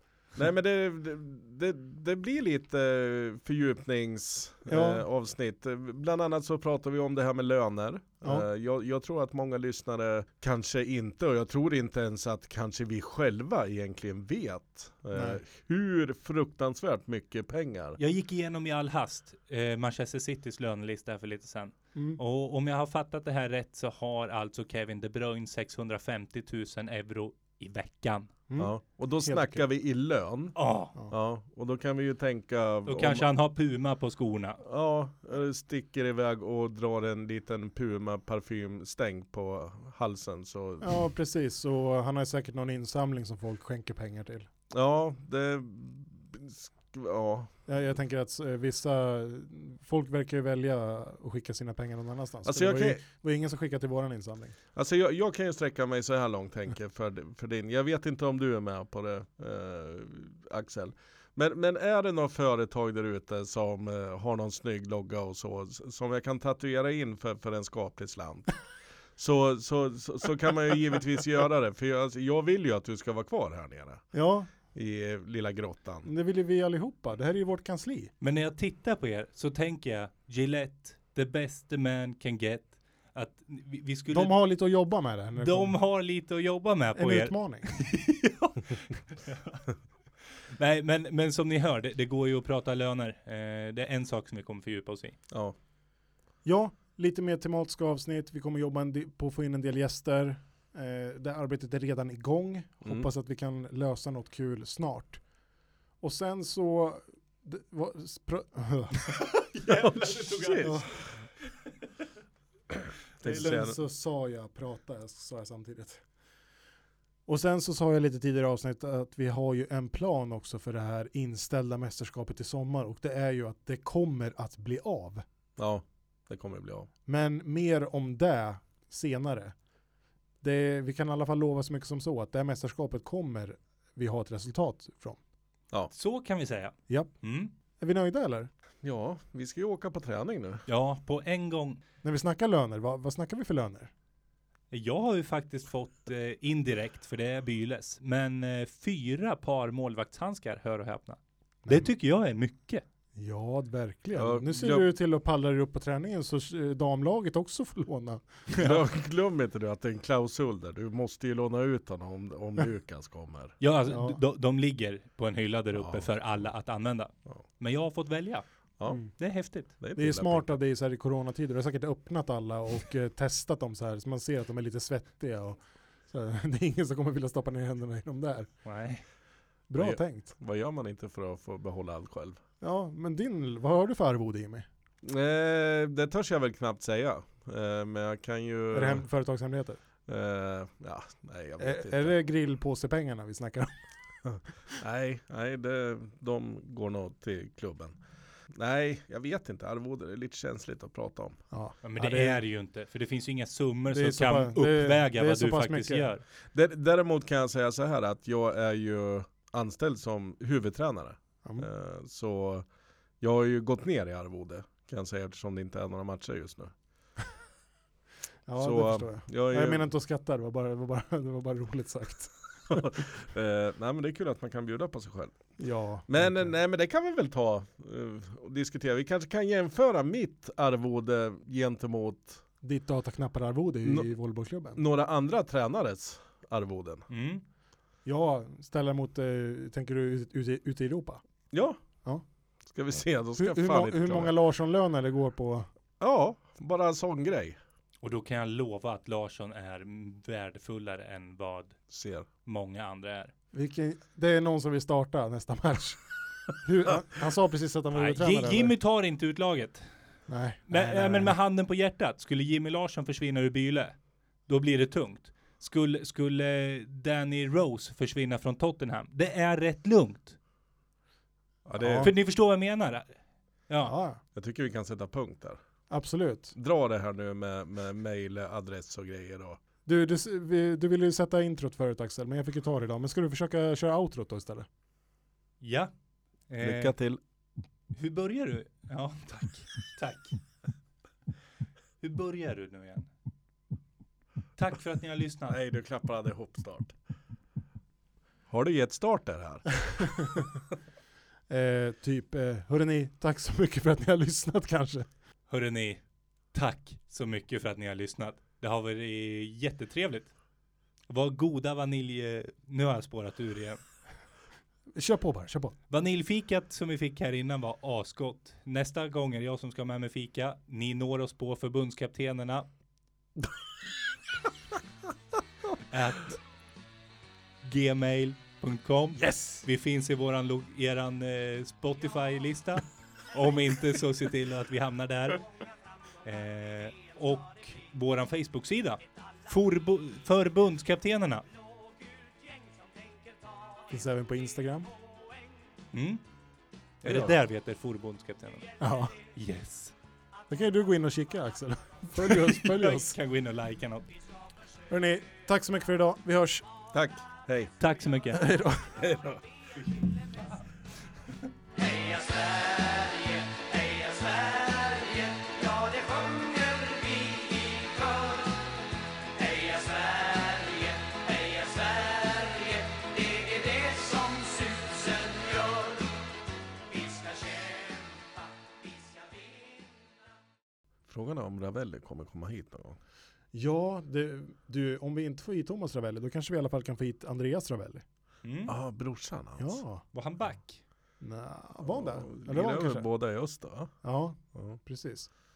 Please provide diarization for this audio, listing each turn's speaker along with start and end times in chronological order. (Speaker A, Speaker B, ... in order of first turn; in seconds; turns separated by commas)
Speaker A: 0.3-18.0, Speaker B: 4.7-5.0, Speaker B: 15.1-15.4, Speaker C: 18.0-28.3, Speaker B: 21.9-22.2, Speaker A: 28.6-33.3, Speaker B: 29.2-29.6, Speaker C: 30.6-30.9, Speaker C: 32.9-34.6, Speaker A: 34.6-41.1, Speaker B: 40.8-44.5, Speaker A: 44.7-47.5, Speaker B: 47.6-54.5, Speaker A: 52.4-53.0, Speaker A: 54.7-74.1, Speaker B: 74.1-74.5, Speaker A: 74.6-76.1, Speaker B: 76.0-78.1, Speaker C: 78.2-84.5, Speaker B: 84.1-85.8, Speaker C: 85.4-89.7, Speaker B: 87.0-87.8, Speaker C: 90.5-95.2, Speaker A: 95.3-95.5, Speaker B: 96.4-105.2, Speaker B: 106.0-109.1, Speaker C: 109.2-111.3, Speaker A: 109.6-111.2, Speaker B: 110.6-111.0, Speaker A: 113.1-113.8, Speaker B: 113.2-116.0, Speaker B: 117.2-125.2, Speaker A: 125.6-126.9, Speaker B: 127.0-129.5, Speaker B: 130.4-135.2, Speaker C: 135.9-137.5, Speaker B: 136.9-137.2, Speaker B: 137.8-138.5, Speaker A: 138.8-140.6, Speaker C: 140.7-141.8, Speaker B: 142.0-143.9, Speaker C: 144.7-152.8, Speaker B: 153.1-158.5, Speaker A: 154.2-154.8, Speaker A: 158.6-163.6, Speaker C: 163.6-169.7, Speaker B: 163.9-164.2, Speaker A: 165.7-166.4, Speaker A: 168.8-170.6, Speaker B: 168.9-169.1, Speaker B: 169.9-178.6, Speaker C: 178.6-179.0, Speaker B: 179.7-180.3, Speaker A: 179.8-182.4, Speaker B: 182.6-184.7, Speaker A: 185.0-189.1, Speaker B: 188.7-189.8, Speaker A: 190.1-192.2, Speaker B: 191.6-194.5, Speaker A: 194.2-198.0, Speaker A: 198.5-201.4, Speaker B: 201.5-202.4, Speaker C: 201.8-206.2, Speaker B: 203.9-206.1, Speaker A: 206.5-212.7, Speaker A: 213.2-216.7, Speaker B: 218.5-222.7, Speaker A: 218.6-219.9, Speaker A: 222.7-232.4, Speaker B: 225.6-226.5, Speaker B: 232.6-234.8, Speaker A: 233.8-234.1, Speaker A: 234.7-237.1, Speaker C: 237.1-237.4, Speaker B: 238.0-241.2, Speaker A: 241.5-241.8, Speaker A: 242.6-244.3, Speaker B: 243.4-245.7, Speaker A: 246.0-247.6, Speaker C: 248.0-253.3, Speaker A: 251.9-252.3, Speaker B: 253.5-258.7, Speaker C: 257.9-260.1, Speaker B: 260.3-261.4, Speaker C: 260.7-270.4, Speaker A: 271.6-272.1, Speaker B: 271.8-272.1, Speaker C: 272.0-273.9, Speaker B: 273.8-274.2, Speaker A: 274.3-275.6, Speaker B: 275.9-276.5, Speaker A: 276.5-279.6, Speaker B: 279.9-284.7, Speaker C: 285.6-285.9, Speaker C: 286.5-286.9, Speaker A: 286.6-287.2, Speaker C: 287.9-290.5, Speaker C: 292.0-293.1, Speaker C: 294.5-295.6, Speaker A: 295.5-297.0, Speaker A: 298.5-300.5, Speaker B: 301.5-305.1, Speaker C: 305.5-310.4, Speaker C: 311.1-313.8, Speaker B: 314.9-315.7, Speaker C: 315.9-322.7, Speaker C: 325.9-326.4, Speaker C: 327.6-335.5, Speaker C: 336.2-341.4, Speaker B: 343.9-344.9, Speaker C: 345.9-346.2, Speaker C: 347.0-349.9, Speaker A: 347.0-347.3, Speaker B: 348.8-349.1, Speaker B: 350.5-353.1, Speaker C: 352.2-354.1, Speaker B: 354.9-356.7, Speaker A: 356.9-357.7, Speaker C: 357.8-358.5, Speaker B: 358.3-358.9, Speaker A: 358.9-359.4, Speaker D: 361.7-376.2, Speaker D: 376.9-380.1, Speaker A: 381.1-383.0, Speaker B: 383.5-388.0, Speaker C: 388.4-388.7, Speaker A: 388.6-389.8, Speaker B: 389.6-390.0, Speaker C: 390.1-390.9, Speaker B: 391.2-393.1, Speaker A: 391.8-394.0, Speaker B: 394.0-395.3